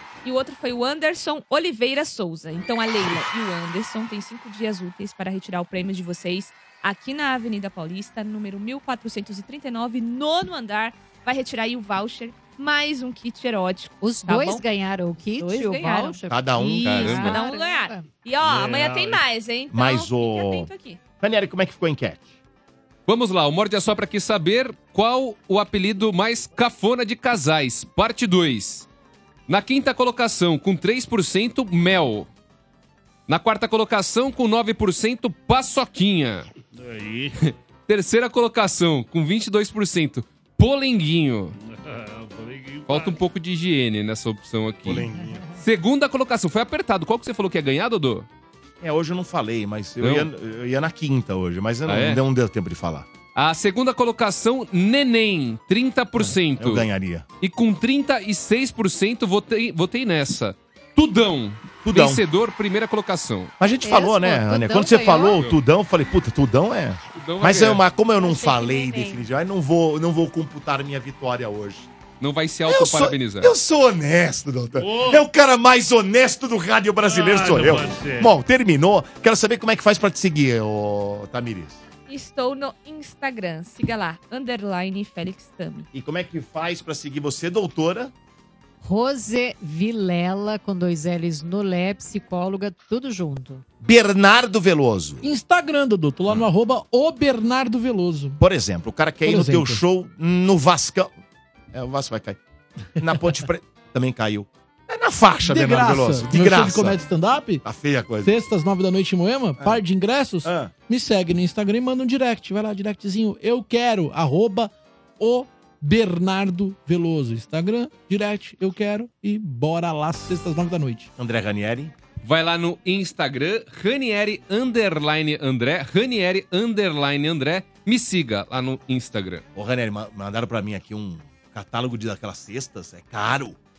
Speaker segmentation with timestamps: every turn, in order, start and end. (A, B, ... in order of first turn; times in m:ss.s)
0:00.2-0:14.6 A
0:14.0-0:18.1 B
0:15.4-0:16.2 A
0:16.3-0:17.2 C
0:16.8-0:17.3 D
0:16.8-0:21.0 A
0:18.4-0:19.2 E
0:19.7-0:22.3 C
0:23.1-0:28.9 D
0:29.5-0:32.3 D
0:33.3-0:36.5 D
0:36.7-0:37.4 E
0:37.4-0:41.5 D
0:41.6-0:43.2 E
0:42.9-0:48.3 D
0:44.8-0:45.4 C
0:45.2-0:45.5 B
0:48.8-0:53.1 C
0:50.0-0:50.3 D
0:51.8-0:52.2 D
0:53.3-0:56.9 D
0:56.2-0:57.2 C
0:57.4-1:03.5 D
1:01.8-1:02.2 C
1:03.6-1:11.9 C
1:03.8-1:05.4 B
1:07.1-1:07.8 D
1:08.1-1:09.2 B
1:12.2-1:13.5 D
1:12.7-1:21.8 C
1:14.8-1:15.2 E
1:17.0-1:18.3 E
1:22.1-1:25.9 A
1:25.9-1:28.1 C
1:28.8-1:33.6 B
1:33.8-1:35.2 C
1:35.2-1:38.4 F
1:38.4-1:41.1 C
1:39.2-1:39.8 F
1:41.7-1:42.4 C
1:43.0-1:47.0 C
1:45.4-1:47.6 F
1:47.6-1:48.4 C
1:48.2-2:01.1 F
1:50.4-1:50.7 C
2:01.2-2:01.9 C
2:02.2-2:09.4 D
2:09.5-2:13.6 C